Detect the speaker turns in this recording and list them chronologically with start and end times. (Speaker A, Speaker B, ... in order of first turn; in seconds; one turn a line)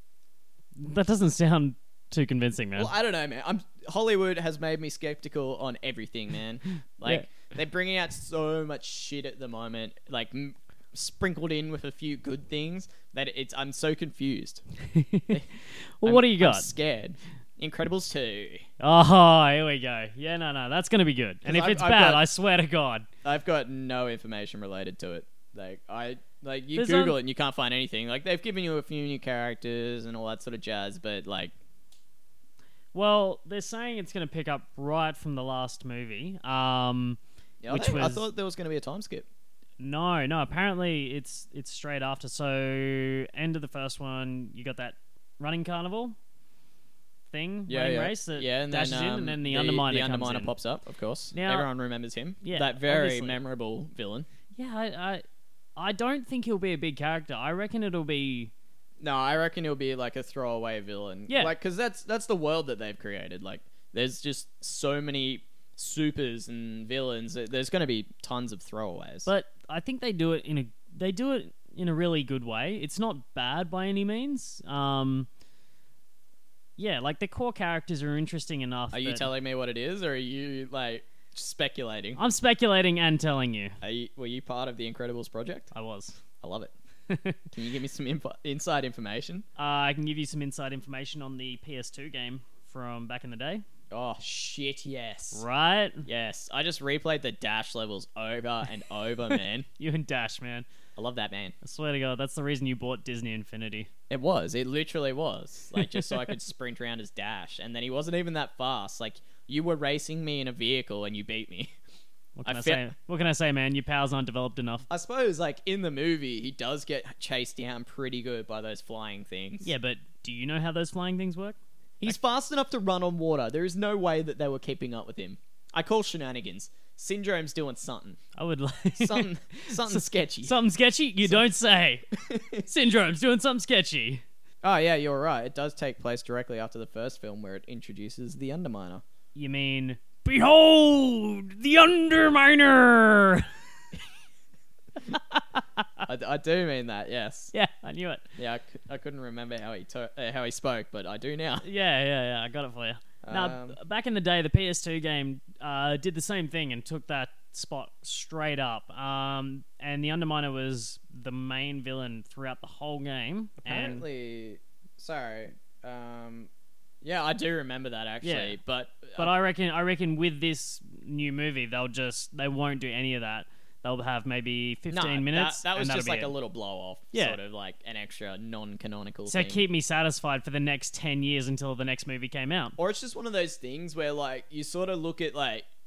Speaker A: 0.8-2.9
Speaker B: 2.8-14.6
Speaker A: 14.8-16.7
Speaker B: 16.0-18.7
Speaker A: 18.8-23.1
Speaker B: 21.4-22.2
Speaker B: 23.2-31.5
Speaker A: 26.8-27.2
Speaker A: 32.9-38.2
Speaker B: 37.6-39.3
Speaker A: 39.8-46.2
Speaker A: 47.3-50.5
Speaker B: 47.7-54.3
Speaker A: 51.3-51.7
Speaker A: 52.4-53.4
Speaker A: 54.5-55.2
Speaker A: 55.8-58.5
Speaker B: 59.0-69.3
Speaker A: 61.3-61.5
Speaker A: 69.3-75.3
Speaker A: 76.8-79.3
Speaker B: 78.9-82.2
Speaker A: 82.2-83.8
Speaker B: 83.8-85.7
Speaker A: 85.7-86.2
Speaker B: 86.4-86.7
Speaker A: 87.1-87.4
Speaker B: 87.5-89.5
Speaker A: 89.6-93.6
Speaker B: 93.9-95.4
Speaker A: 95.3-96.1
Speaker B: 96.0-99.7
Speaker A: 99.8-100.7
Speaker B: 101.0-101.5
Speaker A: 101.6-103.9
Speaker B: 104.1-111.7
Speaker A: 105.8-106.3
Speaker A: 112.4-114.9
Speaker B: 112.5-112.9
Speaker B: 114.9-119.7
Speaker A: 119.6-121.6
Speaker B: 122.0-128.2
Speaker A: 128.4-132.1
Speaker B: 128.9-130.6
Speaker B: 132.1-132.7
Speaker A: 132.6-134.2
Speaker B: 134.6-139.0
Speaker A: 139.3-143.5
Speaker A: 145.1-145.8
Speaker B: 146.0-147.5
Speaker A: 147.5-148.3
Speaker B: 148.4-151.7
Speaker A: 151.6-164.1
Speaker B: 153.2-153.8
Speaker B: 163.6-166.5
Speaker B: 167.0-169.3
Speaker A: 168.2-168.6
Speaker A: 169.2-176.3
Speaker B: 174.9-179.6
Speaker A: 177.1-177.4
Speaker A: 179.3-182.8
Speaker B: 182.8-185.7